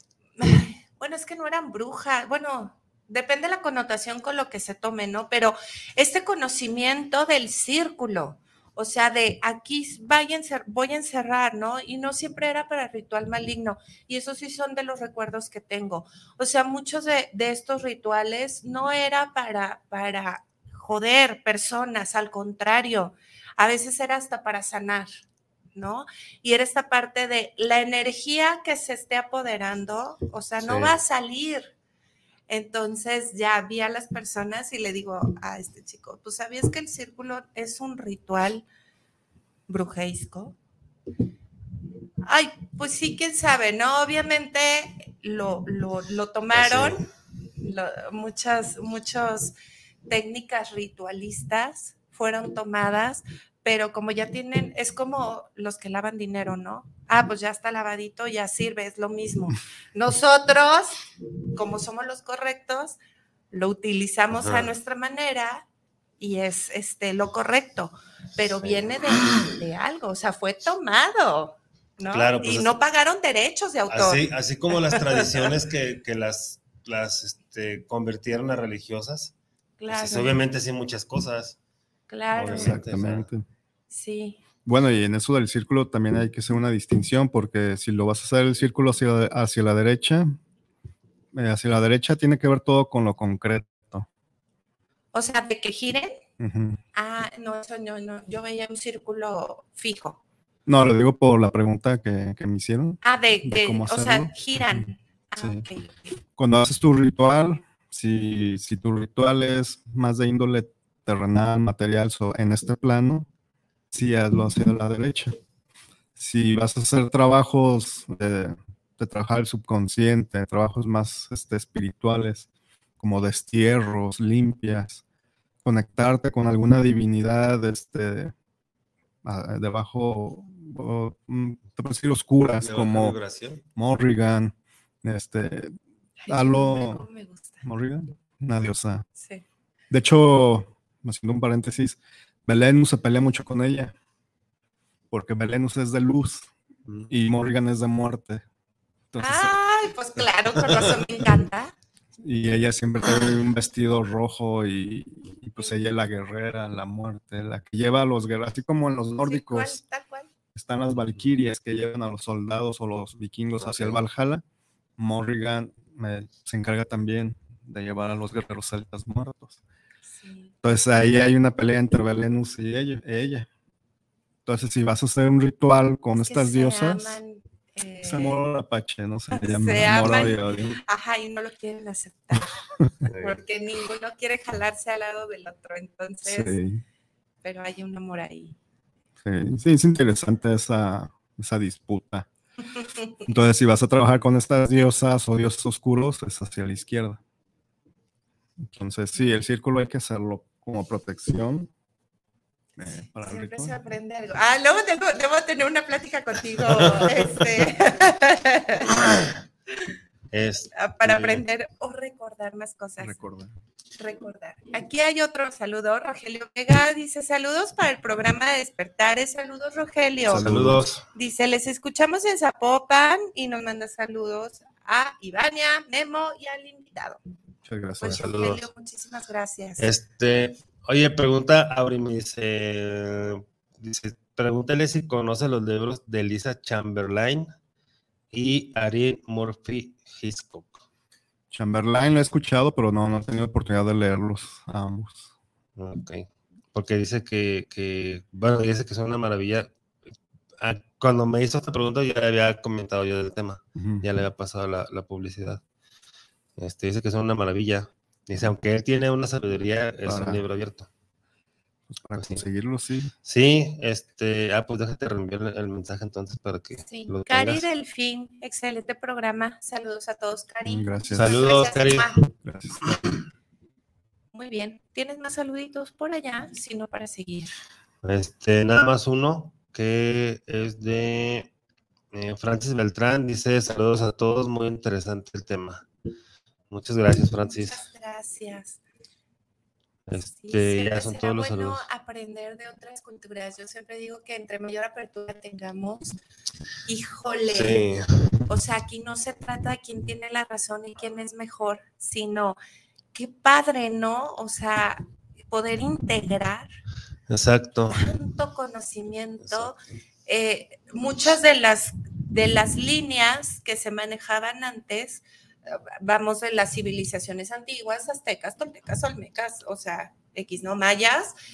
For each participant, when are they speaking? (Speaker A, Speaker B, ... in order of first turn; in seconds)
Speaker A: 0.4-25.2, 25.8-31.7, 32.5-38.6, 39.7-40.6, 42.3-47.1, 47.6-49.5, 50.1-63.0, 63.5-65.7, 66.2-75.3, 79.8-80.4, 82.1-82.8, 83.9-84.4, 95.1-96.2, 97.0-100.2, 103.0-106.0, 136.2-137.7, 139.2-139.4, 149.2-151.7, 159.2-160.3, 170.1-170.5, 176.2-178.4, 179.3-182.6, 183.2-186.6, 187.4-188.6, 192.8-193.1, 202.8-209.0, 210.8-213.2, 214.0-220.5, 221.1-227.2, 228.0-229.9, 266.9-272.2, 274.3-277.5, 287.4-288.8, 290.2-296.2, 296.9-297.8, 298.5-302.6, 303.1-306.7, 307.9-309.8, 310.3-321.3
Speaker B: 30.6-30.9, 46.5-47.0, 64.3-64.7, 72.1-72.7, 73.9-79.3, 79.9-81.6, 82.4-83.3, 132.6-133.6, 163.6-164.0, 183.1-183.4, 206.7-207.7, 209.0-209.3, 210.3-211.4, 220.3-221.0, 228.1-228.7, 229.8-237.5, 238.3-240.8, 245.8-249.7, 250.6-255.6, 256.6-260.9, 262.2-262.4, 263.2-267.6, 271.1-272.2, 272.9-273.2, 278.0-281.5, 282.1-285.9, 286.7-287.8, 290.1-291.8, 297.6-298.4, 307.3-308.1
Speaker C: 82.5-83.5, 84.7-90.4, 91.3-94.1, 96.4-96.8, 100.7-104.8, 105.4-105.7, 106.4-113.3, 113.9-115.4, 116.2-122.5, 123.0-125.0, 125.7-128.3, 129.2-133.2, 133.8-135.7, 136.3-137.1, 137.6-139.1, 139.9-143.9, 145.1-146.5, 147.1-148.4, 149.1-149.5, 152.2-159.8, 160.6-164.4, 165.0-169.6, 170.6-173.5, 174.4-177.2, 178.0-180.8, 186.2-186.8, 189.2-192.3, 193.3-197.2, 198.6-201.7, 202.8-203.8, 213.0-213.6, 220.3-220.8, 227.7-228.3, 241.5-245.3, 253.8-254.1, 260.1-260.4, 261.9-263.1, 270.6-271.4, 272.4-273.0